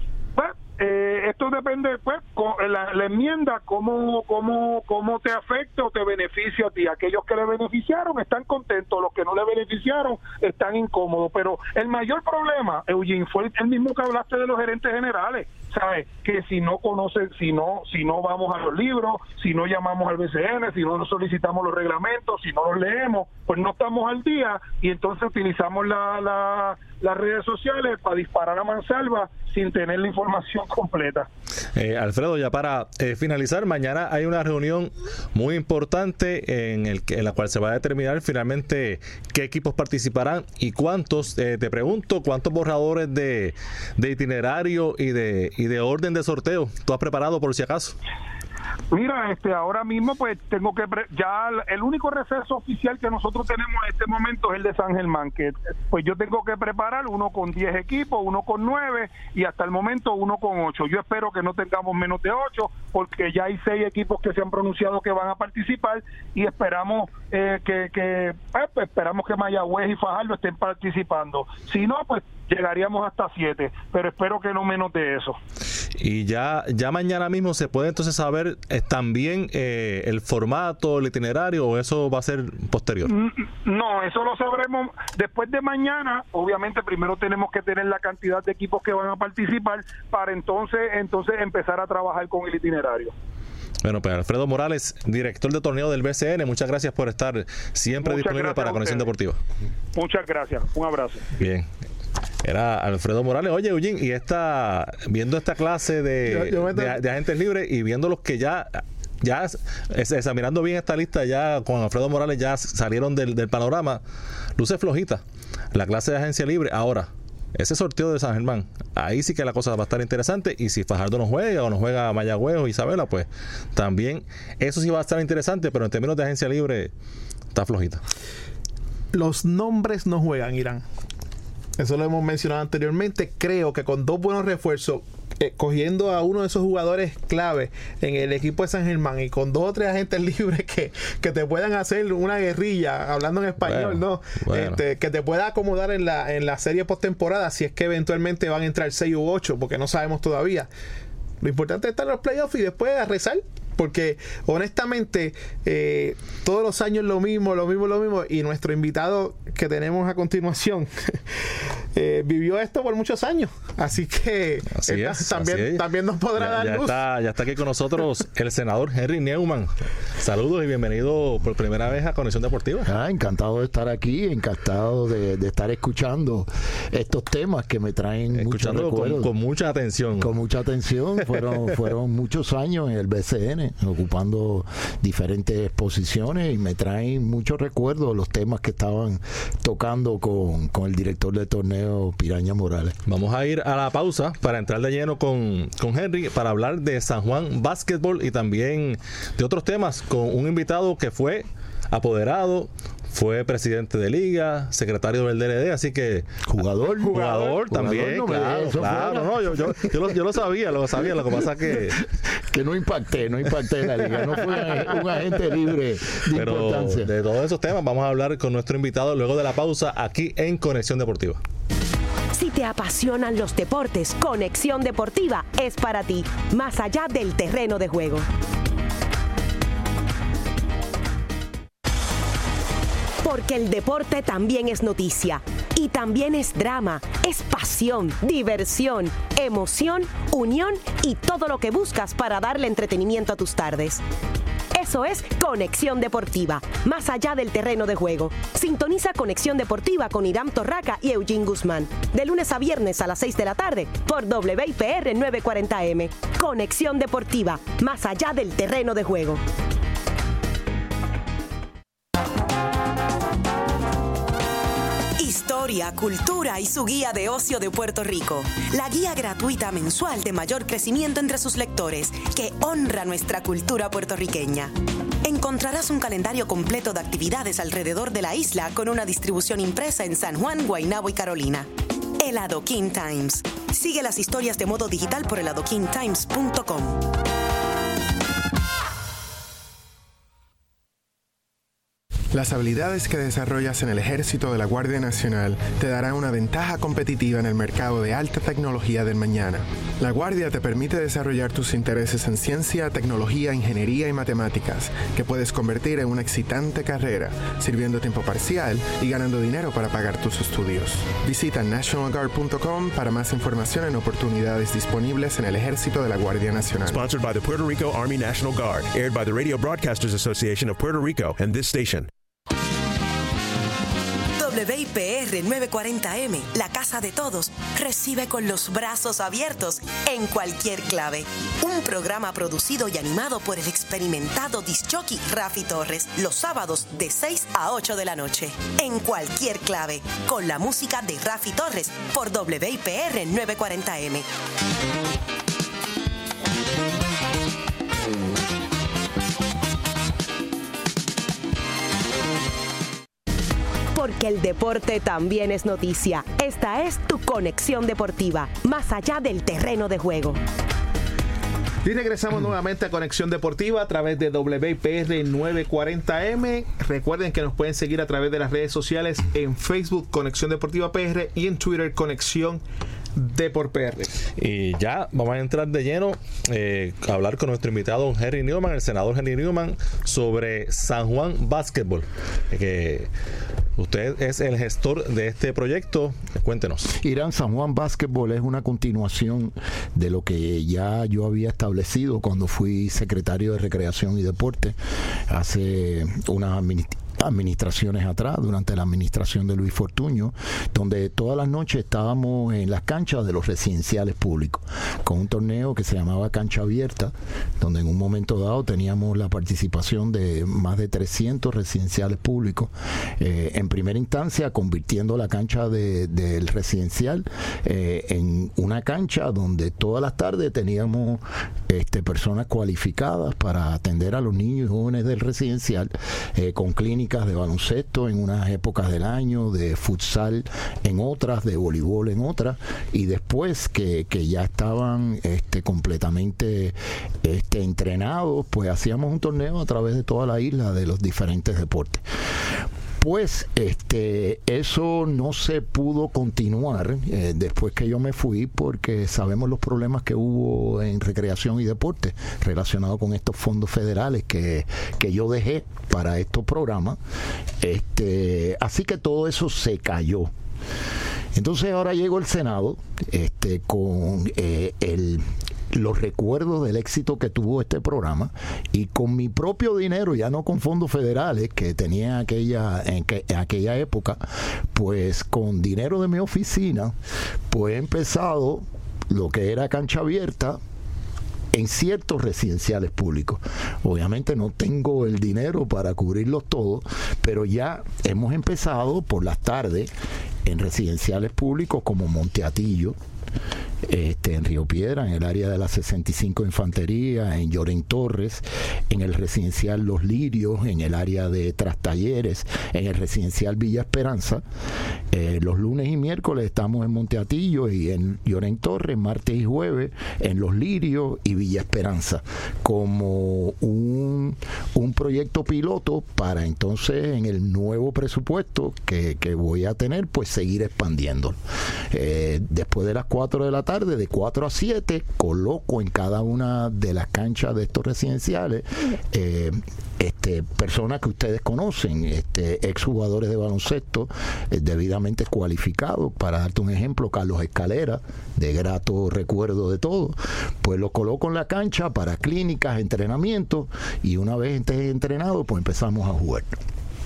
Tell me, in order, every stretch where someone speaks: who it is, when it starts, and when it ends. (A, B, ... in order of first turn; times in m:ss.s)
0:00.4-0:31.3 A
0:31.8-0:48.0 B
0:48.9-1:15.4 A
1:16.0-1:23.1 B
1:23.1-1:33.1 A
1:33.8-1:39.4 B
1:38.0-1:39.1 A
1:39.9-1:41.3 A
1:41.4-1:41.7 B
1:42.4-1:54.0 B
1:46.2-1:47.0 C
1:54.6-1:55.2 B
1:55.7-2:06.9 B
2:07.5-2:08.0 B
2:09.1-2:10.8 C
2:11.8-2:30.7 C
2:23.6-2:24.8 B
2:31.4-2:41.2 C
2:41.9-2:47.0 C
2:44.8-2:52.9 B
2:52.8-2:59.3 D
2:58.4-3:00.3 B
3:00.2-3:13.0 D
3:13.1-3:26.3 B
3:26.5-3:30.0 D
3:27.0-3:27.9 C
3:27.1-3:32.0 B
3:32.5-3:37.1 D
3:36.3-3:41.4 B
3:42.3-3:48.3 E
3:53.2-4:04.0 E
4:04.8-4:19.4 E
4:25.2-4:41.7 E
4:42.2-4:47.1 E
4:52.3-5:17.0 F
5:16.9-5:22.1 G
5:24.4-5:44.3 E
5:53.9-6:00.4 E
6:01.8-6:12.6 C
6:13.2-6:14.2 C
6:14.4-6:23.1 B
6:23.8-6:26.9 B
6:27.0-6:34.8 D
6:35.3-7:22.0 D
7:23.0-7:37.0 D
7:37.6-7:40.3 D
7:41.3-7:56.9 D
7:57.5-8:00.6 D
8:01.5-8:09.9 D
8:10.4-8:13.0 D
8:13.8-8:24.4 D
8:25.1-8:41.4 D
8:41.9-9:06.6 D